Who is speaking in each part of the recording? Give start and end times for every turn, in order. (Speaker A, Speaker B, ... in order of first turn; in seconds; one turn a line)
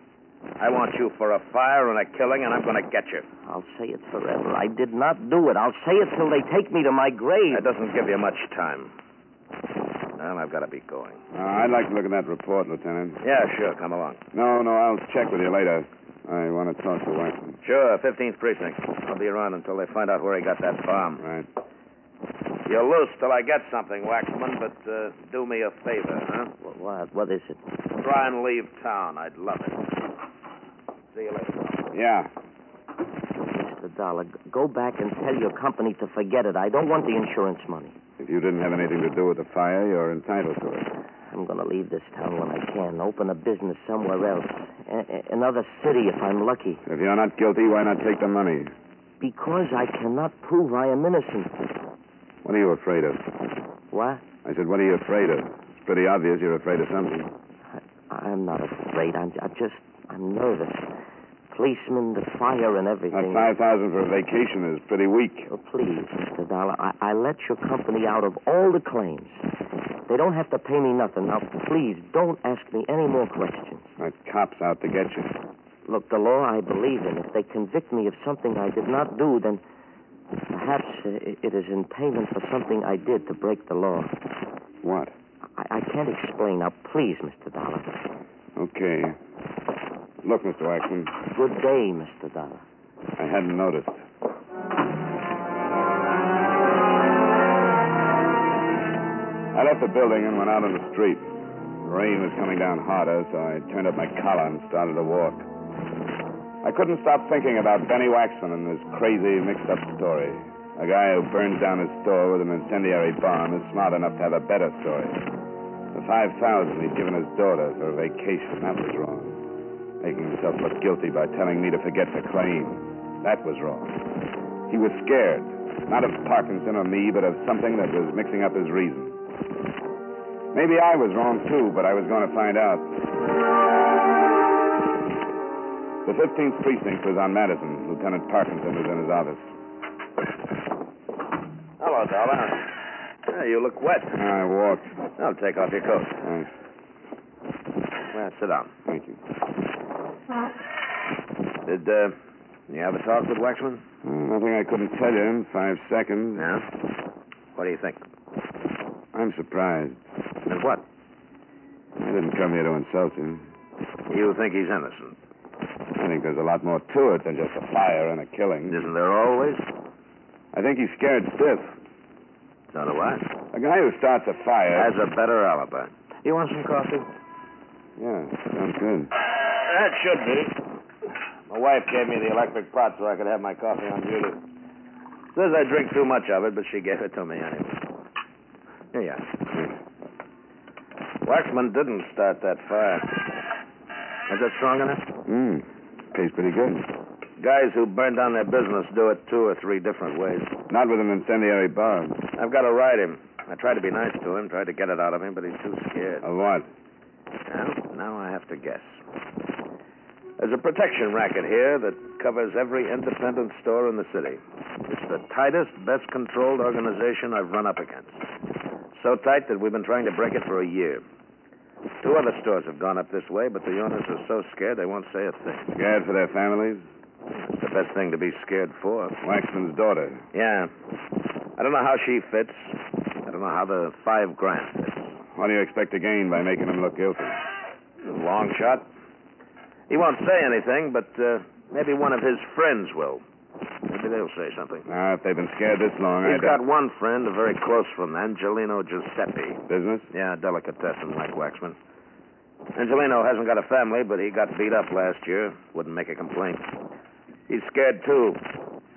Speaker A: 0.6-3.2
Speaker B: 3.4-7.7
Speaker A: 7.5-8.9
Speaker A: 10.2-11.2
Speaker C: 11.3-13.2
Speaker A: 13.2-14.2
Speaker C: 14.3-17.6
Speaker A: 17.6-21.2
Speaker C: 21.2-21.5
Speaker A: 22.6-26.5
Speaker B: 26.6-27.6
Speaker A: 28.0-29.8
Speaker A: 31.1-31.9
Speaker C: 31.9-32.3
Speaker B: 33.4-38.0
Speaker C: 38.2-40.9
Speaker B: 41.3-46.8
Speaker C: 46.9-48.7
Speaker B: 49.2-51.5
Speaker C: 52.4-53.2
Speaker B: 53.9-54.3
Speaker C: 54.4-57.3
Speaker B: 57.8-60.9
Speaker B: 61.5-63.5
Speaker C: 63.1-65.5
Speaker B: 65.5-69.4
Speaker B: 70.1-73.9
Speaker C: 74.0-75.3
Speaker B: 75.9-79.6
Speaker B: 80.5-84.1
Speaker C: 84.8-85.1
Speaker B: 85.6-87.9
Speaker C: 88.5-89.2
Speaker C: 90.2-91.1
Speaker B: 91.3-92.6
Speaker C: 93.2-94.0
Speaker C: 99.5-101.3
Speaker C: 101.8-105.5
Speaker C: 106.6-115.2
Speaker C: 115.9-119.4
Speaker C: 120.0-124.0
Speaker C: 124.7-129.2
Speaker C: 130.5-132.9
Speaker C: 136.0-139.5
Speaker A: 141.8-142.7
Speaker A: 143.3-144.2
Speaker C: 144.1-145.0
Speaker A: 145.2-146.2
Speaker C: 146.2-146.5
Speaker A: 148.1-148.7
Speaker C: 148.9-149.2
Speaker A: 151.7-152.2
Speaker A: 152.7-153.8
Speaker C: 154.0-156.5
Speaker A: 156.4-156.7
Speaker A: 157.6-158.0
Speaker C: 159.1-160.0
Speaker A: 160.5-160.8
Speaker C: 162.0-163.5
Speaker A: 164.1-165.2
Speaker C: 166.0-168.9
Speaker A: 168.7-169.6
Speaker C: 170.5-171.8
Speaker A: 172.7-173.3
Speaker C: 173.5-174.9
Speaker A: 174.7-177.1
Speaker C: 178.0-179.1
Speaker A: 179.4-180.6
Speaker A: 181.5-184.4
Speaker A: 185.3-187.8
Speaker A: 188.9-189.3
Speaker A: 191.2-193.2
Speaker A: 194.3-195.0
Speaker C: 195.2-196.9
Speaker A: 197.4-200.5
Speaker C: 200.7-202.2
Speaker A: 202.3-206.2
Speaker C: 206.2-206.7
Speaker A: 207.5-209.0
Speaker A: 210.4-218.2
Speaker A: 218.9-221.0
Speaker A: 222.0-225.7
Speaker C: 225.7-226.8
Speaker A: 227.3-229.2
Speaker C: 229.2-230.2
Speaker A: 230.3-230.7
Speaker A: 231.6-232.7
Speaker A: 233.2-235.1
Speaker C: 235.3-237.4
Speaker A: 238.0-238.9
Speaker A: 239.9-243.2
Speaker A: 243.9-244.8
Speaker C: 244.9-246.6
Speaker A: 246.2-251.8
Speaker C: 249.7-250.1
Speaker A: 252.7-256.7
Speaker A: 257.5-258.4